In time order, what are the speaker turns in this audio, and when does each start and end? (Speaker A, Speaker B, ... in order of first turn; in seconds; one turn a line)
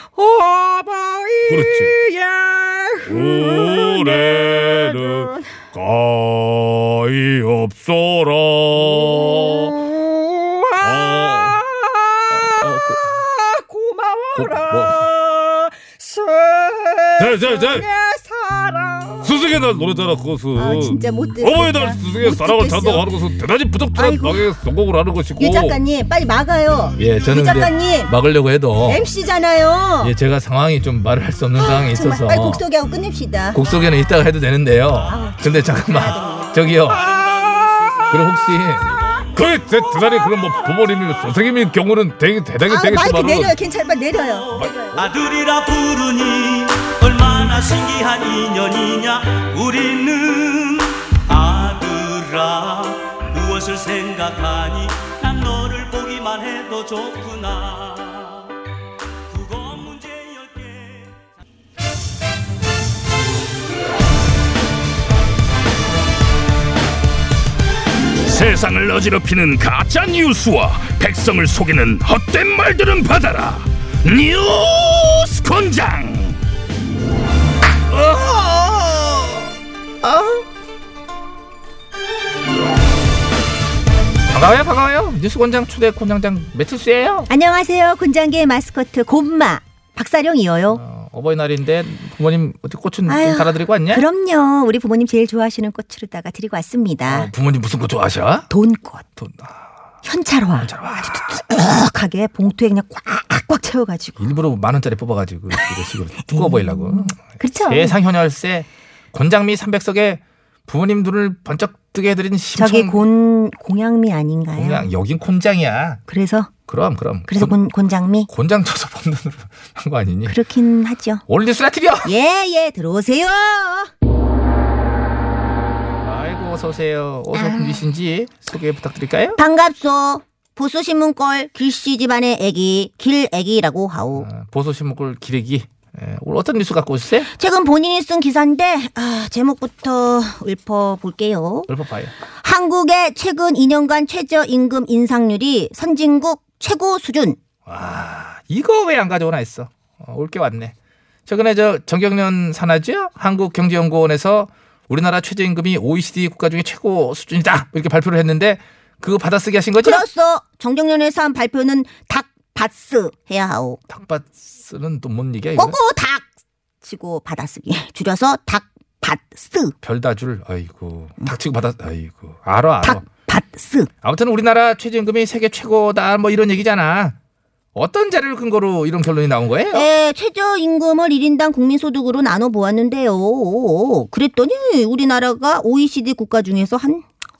Speaker A: 0.1-5.4
Speaker B: 1.6-1.9
Speaker B: 3.1-9.8
Speaker A: 8.8-19.4
Speaker B: 10.8-11.6
Speaker B: 14.3-15.1
Speaker B: 17.2-17.9
Speaker B: 19.2-25.8
Speaker C: 20.5-23.1
Speaker C: 23.9-24.5
Speaker C: 25.4-28.1
Speaker D: 27.0-29.0
Speaker C: 28.9-30.1
Speaker D: 30.0-32.6
Speaker C: 31.6-33.6
Speaker D: 33.5-37.0
Speaker C: 35.0-37.6
Speaker E: 37.0-38.3
Speaker D: 38.1-38.9
Speaker B: 39.4-43.5
Speaker D: 40.0-41.2
Speaker C: 42.6-45.0
Speaker E: 44.9-58.5
Speaker E: 59.3-61.2
Speaker F: 68.3-68.5
Speaker F: 69.1-69.4
Speaker F: 70.1-71.1
Speaker F: 72.0-73.6
Speaker D: 77.9-79.4
Speaker D: 80.0-80.4
Speaker D: 84.3-87.3
Speaker C: 87.3-90.8
Speaker D: 90.7-94.0
Speaker C: 93.1-97.3
Speaker D: 97.0-98.5
Speaker C: 98.5-99.0
Speaker D: 99.2-99.5
Speaker C: 100.0-104.2
Speaker D: 100.6-101.4
Speaker D: 104.2-113.0
Speaker C: 106.2-108.0
Speaker C: 112.6-114.9
Speaker D: 114.5-116.0
Speaker C: 116.1-116.5
Speaker D: 116.7-117.5
Speaker C: 117.3-118.3
Speaker D: 118.3-120.3
Speaker C: 120.3-121.2
Speaker D: 121.3-122.1
Speaker C: 122.0-123.9
Speaker D: 126.0-129.4
Speaker C: 127.3-127.8
Speaker C: 129.4-134.3
Speaker D: 134.1-137.3
Speaker C: 137.3-141.7
Speaker D: 141.7-142.1
Speaker C: 142.3-147.4
Speaker D: 147.7-150.7
Speaker D: 151.3-160.0
Speaker C: 159.8-163.8
Speaker D: 163.9-165.8
Speaker C: 165.6-166.3
Speaker C: 166.8-169.7
Speaker D: 169.8-173.0
Speaker C: 172.8-173.9
Speaker D: 174.0-177.2
Speaker D: 177.7-179.9
Speaker C: 179.7-187.0